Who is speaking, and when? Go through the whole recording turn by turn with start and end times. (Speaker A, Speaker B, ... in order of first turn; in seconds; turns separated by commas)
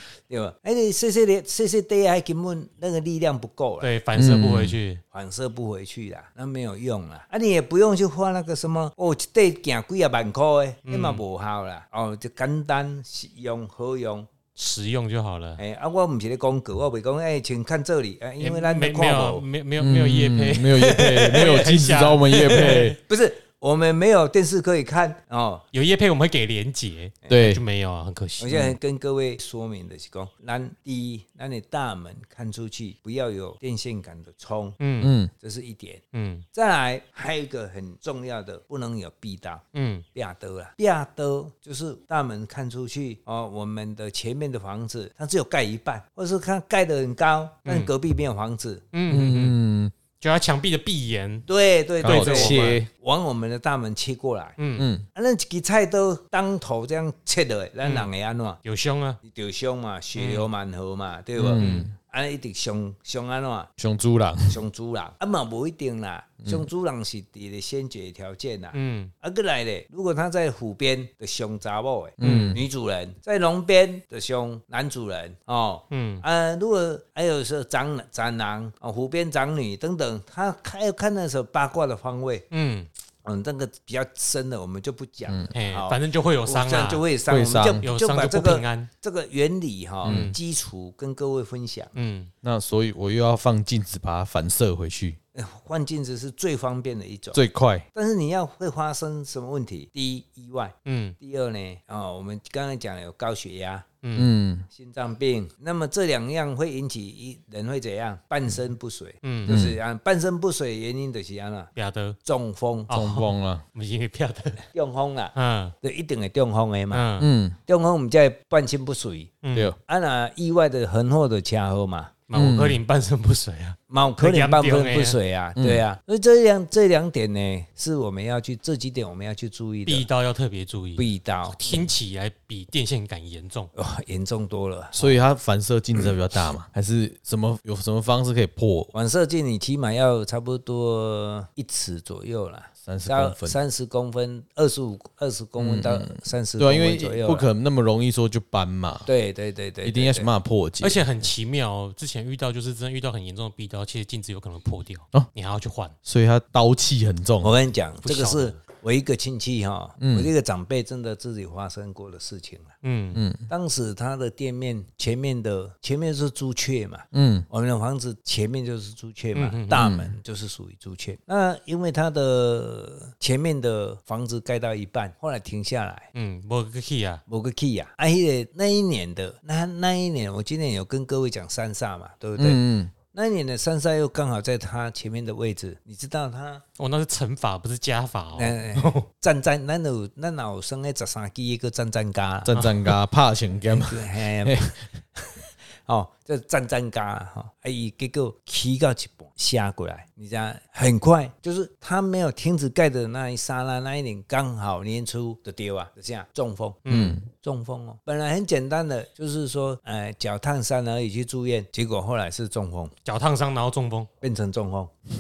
Speaker A: 0.3-3.9, Speaker B: 3.8-5.0, Speaker C: 4.2-4.8, Speaker A: 5.1-14.3, Speaker B: 10.8-11.2, Speaker B: 14.6-15.6, Speaker A: 15.6-19.4, Speaker B: 18.4-23.0, Speaker C: 19.8-23.0, Speaker A: 22.5-25.6, Speaker B: 25.7-28.7, Speaker C: 27.3-27.6, Speaker A: 28.4-34.8, Speaker B: 34.8-35.1, Speaker C: 35.0-35.3, Speaker A: 35.4-36.0, Speaker B: 36.1-36.5, Speaker A: 36.5-48.9, Speaker B: 39.7-40.0, Speaker B: 47.7-47.9, Speaker B: 48.9-49.6, Speaker C: 49.1-49.9, Speaker B: 50.2-51.5, Speaker A: 51.5-54.6, Speaker C: 52.0-52.9, Speaker B: 52.0-52.7, Speaker B: 54.6-54.9, Speaker C: 54.8-55.1, Speaker A: 55.1-58.6, Speaker B: 57.8-58.1, Speaker B: 58.6-59.2, Speaker A: 59.2-63.7, Speaker B: 60.1-60.5, Speaker C: 61.4-61.9, Speaker B: 61.6-61.9, Speaker C: 63.8-64.6, Speaker A: 64.5-82.5, Speaker B: 68.7-69.1, Speaker C: 72.2-72.6, Speaker B: 75.9-76.2, Speaker B: 82.5-82.9, Speaker A: 83.2-91.9, Speaker C: 85.3-85.5, Speaker B: 85.5-87.1, Speaker C: 87.3-87.9, Speaker B: 87.7-88.9, Speaker C: 90.0-90.3, Speaker B: 90.0-90.4, Speaker B: 92.0-92.3, Speaker C: 92.4-95.2, Speaker A: 95.3-97.4, Speaker C: 97.3-97.9, Speaker A: 97.9-103.9, Speaker B: 100.8-101.2, Speaker B: 104.0-104.3, Speaker C: 104.2-104.7, Speaker A: 104.7-111.7, Speaker B: 109.2-109.7, Speaker C: 109.5-109.8, Speaker B: 111.8-112.2, Speaker A: 112.2-112.9, Speaker B: 112.9-114.6, Speaker C: 112.9-113.6, Speaker A: 114.7-117.0, Speaker B: 115.3-115.8, Speaker B: 116.9-117.3, Speaker C: 117.2-117.6, Speaker A: 117.7-122.1, Speaker B: 119.4-119.7, Speaker B: 122.3-125.2, Speaker C: 122.3-122.8, Speaker A: 123.9-130.1, Speaker C: 125.6-125.8, Speaker B: 129.8-133.7, Speaker A: 131.0-131.6, Speaker A: 133.8-135.2, Speaker C: 135.0-138.9, Speaker A: 138.9-147.5, Speaker C: 142.8-143.6, Speaker C: 145.6-149.1, Speaker A: 149.1-150.3, Speaker C: 149.8-151.0, Speaker B: 150.8-155.9, Speaker C: 156.0-157.5, Speaker A: 157.4-162.8, Speaker B: 158.0-158.6, Speaker C: 160.0-160.3, Speaker B: 162.8-163.2, Speaker C: 163.1-163.5, Speaker A: 163.5-176.1, Speaker C: 167.1-167.5, Speaker B: 169.3-169.8, Speaker C: 169.7-170.1, Speaker B: 176.2-177.2, Speaker A: 177.3-186.6, Speaker C: 182.4-182.9, Speaker B: 186.8-189.1, Speaker A: 188.3-192.6, Speaker C: 192.4-194.7, Speaker B: 192.5-192.9, Speaker A: 193.8-212.9, Speaker B: 206.9-207.2, Speaker C: 206.9-207.2, Speaker B: 213.1-214.1, Speaker A: 214.2-214.9